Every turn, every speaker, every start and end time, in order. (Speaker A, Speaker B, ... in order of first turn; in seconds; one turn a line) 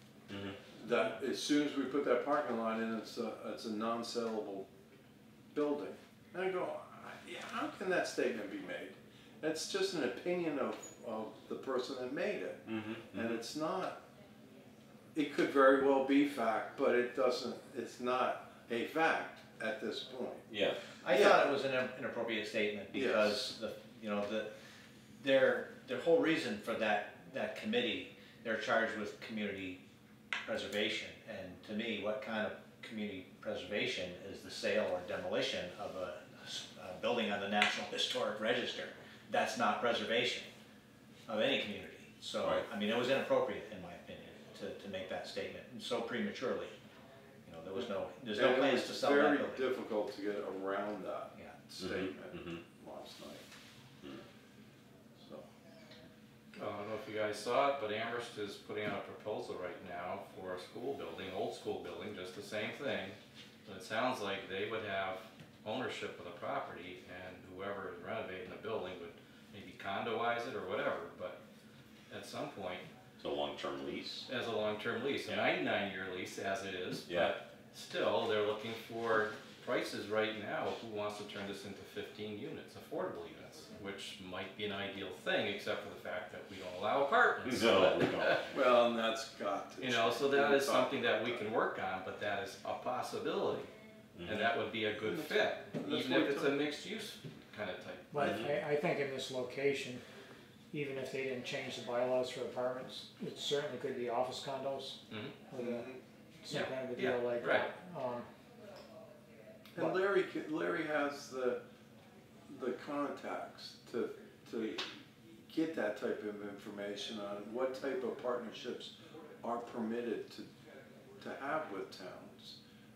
Speaker A: 0.3-0.6
Speaker B: 0.7-4.7
Speaker B: 5.5-14.0
Speaker A: 12.7-13.4
Speaker B: 15.1-20.4
Speaker A: 20.5-20.8
Speaker C: 21.0-24.5
Speaker B: 21.0-21.5
Speaker B: 22.9-23.4
Speaker C: 25.2-29.8
Speaker C: 30.4-40.5
Speaker C: 41.3-46.8
Speaker C: 47.5-49.6
Speaker B: 48.4-53.4
Speaker A: 51.8-52.6
Speaker B: 55.2-55.4
Speaker D: 56.5-71.4
Speaker D: 72.1-72.9
Speaker A: 73.2-74.3
Speaker D: 74.3-88.5
Speaker A: 77.1-77.3
Speaker A: 87.4-88.5
Speaker B: 88.5-91.4
Speaker D: 89.8-93.7
Speaker A: 94.2-94.5
Speaker D: 94.2-98.3
Speaker B: 94.9-96.7
Speaker E: 98.1-100.0
Speaker A: 98.2-98.6
Speaker E: 100.7-105.9
Speaker D: 105.1-105.3
Speaker B: 105.5-106.0
Speaker E: 106.4-108.2
Speaker D: 106.5-107.7
Speaker B: 109.7-111.6
Speaker B: 112.5-114.8
Speaker B: 115.5-120.5
Speaker B: 121.2-122.5